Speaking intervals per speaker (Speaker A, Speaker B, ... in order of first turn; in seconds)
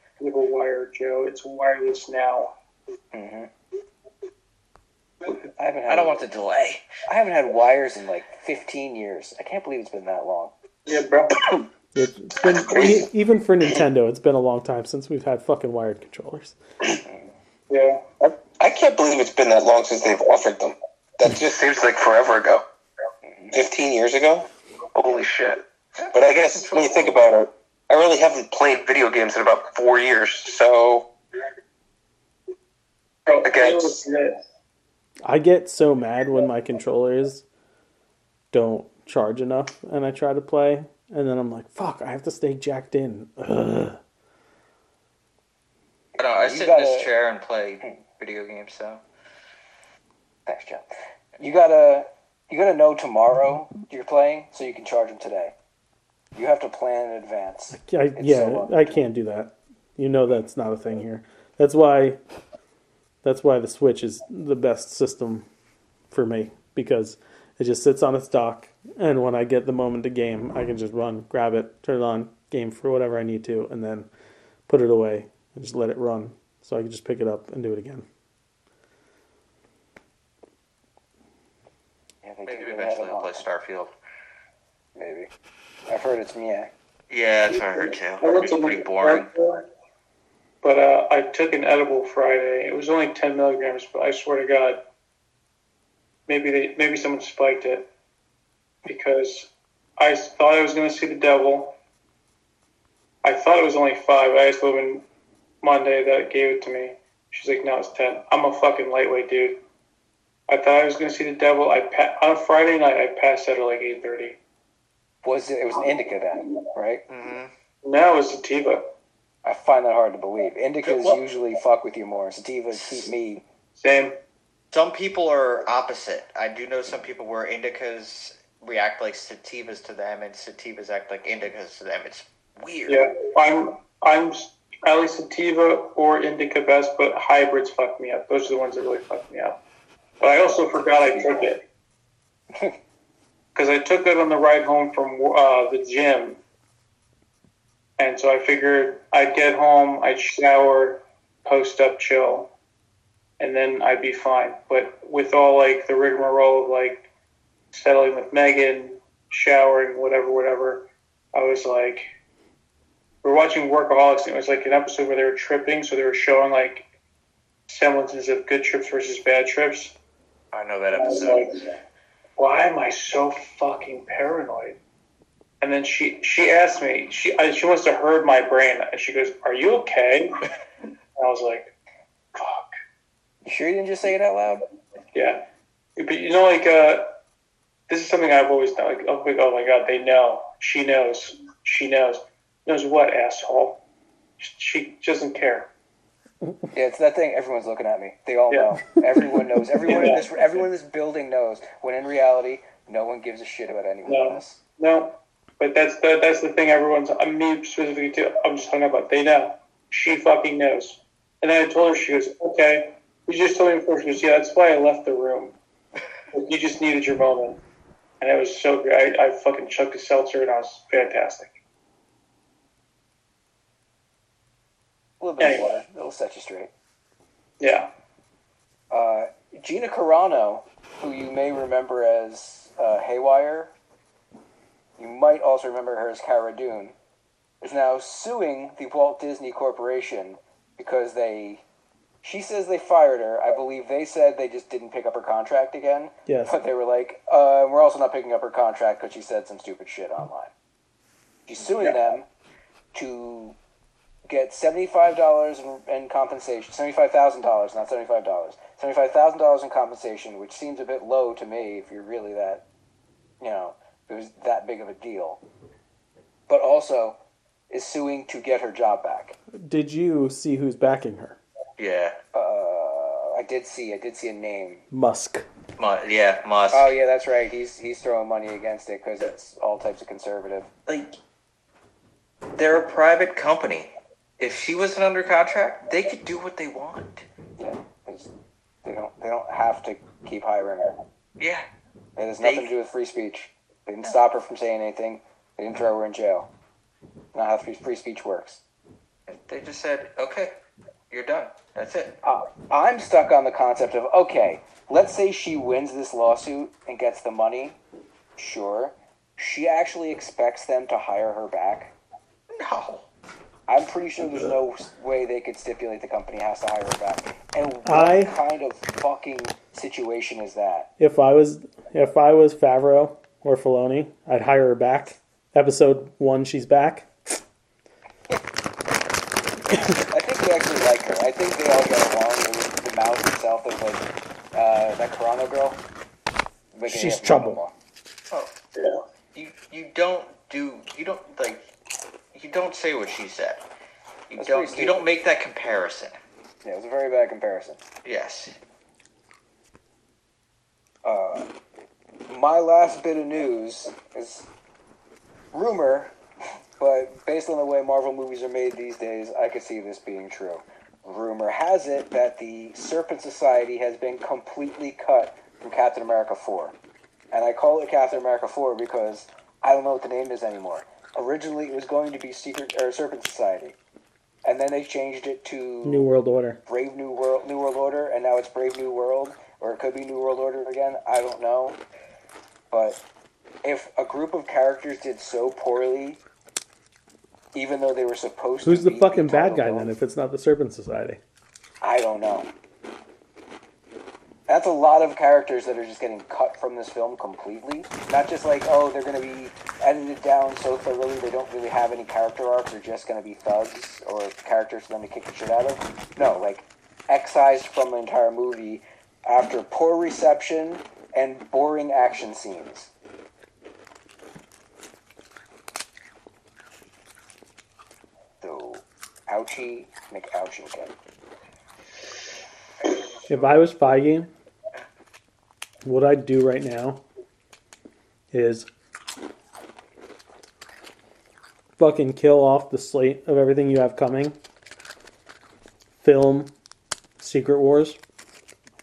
Speaker A: 0.2-2.5, 10.9-11.5, 17.7-18.0, 33.3-34.4, 87.8-89.7, 90.6-94.8, 96.3-97.9, 98.8-101.8, 103.2-105.0, 105.6-109.6, 110.5-114.4, 117.8-118.9, 123.8-124.2, 132.9-139.6, 140.2-141.6, 143.6-146.4, 148.0-152.5, 153.4-157.1, 157.7-162.1, 163.2-166.9, 167.7-169.9, 170.9-171.7, 172.4-174.8, 175.6-180.4, 181.2-181.7, 182.3-182.7, 185.1-185.4, 186.0-187.2, 187.9-193.8, 194.4-195.7, 198.5-198.8, 199.8-200.3, 204.1-215.6, 216.3-217.6, 218.2-221.6, 225.4-225.8, 227.6-227.9, 338.8-339.0
Speaker B: 3.1-3.5, 5.6-6.2, 7.0-10.5, 46.4-47.1, 50.5-50.9, 51.4-55.5, 56.4-59.0, 82.2-83.5, 85.0-85.3, 85.9-86.7, 115.2-117.0, 119.5-123.4, 183.5-184.7, 196.7-204.6, 225.2-226.7, 228.9-233.7, 235.0-236.9, 237.6-241.6, 242.2-250.5, 251.5-252.3, 252.9-253.6, 254.3-262.6, 263.4-265.4, 266.5-267.2, 267.7-269.4, 272.3-274.8, 276.7-280.7, 287.6-288.3, 288.8-291.0, 292.2-296.5, 297.3-298.6, 302.2-307.8, 308.4-311.9, 313.7-320.9, 329.8-335.8, 336.7-337.7, 344.4-345.1, 346.6-347.8, 351.1-351.5, 352.3-354.5, 355.5-356.1, 356.8-366.8, 367.3-373.8, 374.4-376.1, 376.7-381.8, 382.7-383.0, 383.6-386.2, 387.5-389.9, 391.8-392.5, 394.5-412.9, 418.4-420.9
Speaker C: 5.9-6.9, 26.7-27.1, 46.2-49.0, 82.5-83.9, 87.1-89.3, 117.1-117.5, 122.7-123.1, 124.7-133.0, 170.5-171.4, 271.8-272.2, 275.8-276.9, 280.9-281.1, 282.6-287.2, 291.4-291.7, 292.4-292.7, 299.3-300.5, 301.1-302.2, 312.6-313.1, 339.4-341.7, 342.3-343.6, 344.3-346.2, 348.1-348.6
Speaker D: 11.9-16.6, 35.2-37.4, 38.5-44.0, 57.7-62.2, 63.2-65.5, 66.1-74.1, 74.7-78.1, 246.3-246.5, 269.6-271.4, 274.9-275.5, 317.9-318.3, 321.0-327.1, 336.9-337.6, 375.9-376.6, 388.6-391.2, 423.3-424.3, 425.8-427.0, 428.3-428.7, 431.8-434.4, 436.0-436.5, 437.2-438.0
Speaker E: 12.4-13.1, 18.2-22.6, 23.5-31.1, 33.4-34.0